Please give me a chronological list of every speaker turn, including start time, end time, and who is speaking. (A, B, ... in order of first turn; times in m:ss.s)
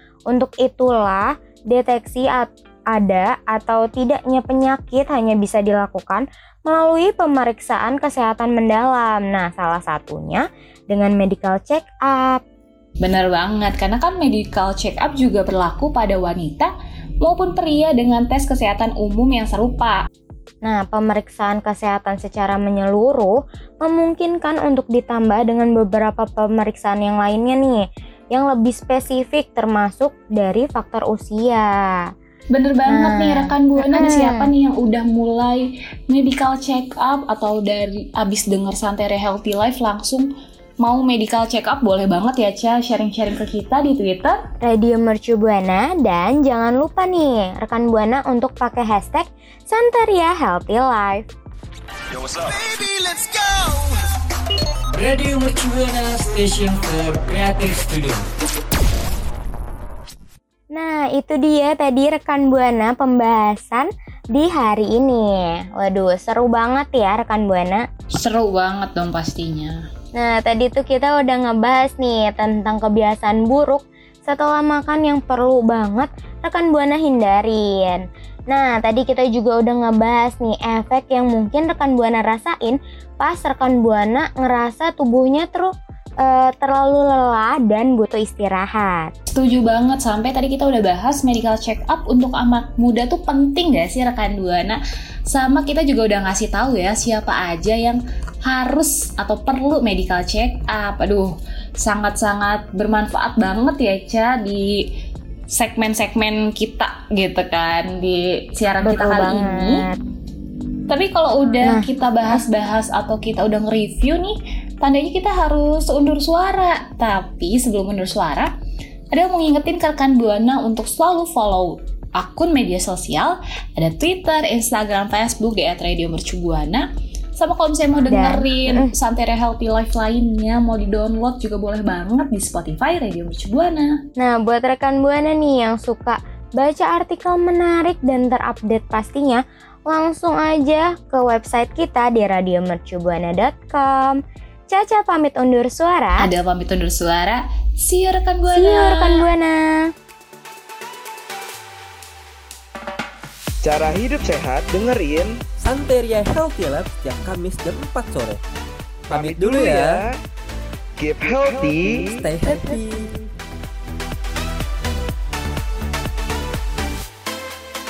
0:00.3-0:12.4 A
0:13.0-0:20.0 B
0:20.6-0:27.8 A
0:28.3-0:32.0 A
0:32.5-0:40.3 B
0:32.9-0:34.5 A
0:40.8-0:44.4 B
0:44.6-0:51.3 A
0:54.9-0:58.3 C
1:00.7-1:07.8 A
1:08.1-1:09.8 B
1:10.2-1:29.1 A
1:29.3-1:44.9 B
1:45.5-1:49.9 B
1:48.8-1:50.0 A
1:50.9-1:58.5 B
1:59.1-2:14.0 B
2:08.0-2:08.9 A
2:14.2-2:26.3 A
2:26.2-2:29.2 B
2:28.5-2:29.9 A
2:33.6-2:35.4 D
2:35.6-2:38.4 E
2:39.1-2:40.1 E
2:39.1-2:40.2 D
2:41.0-2:42.1 D
2:41.6-2:43.2 E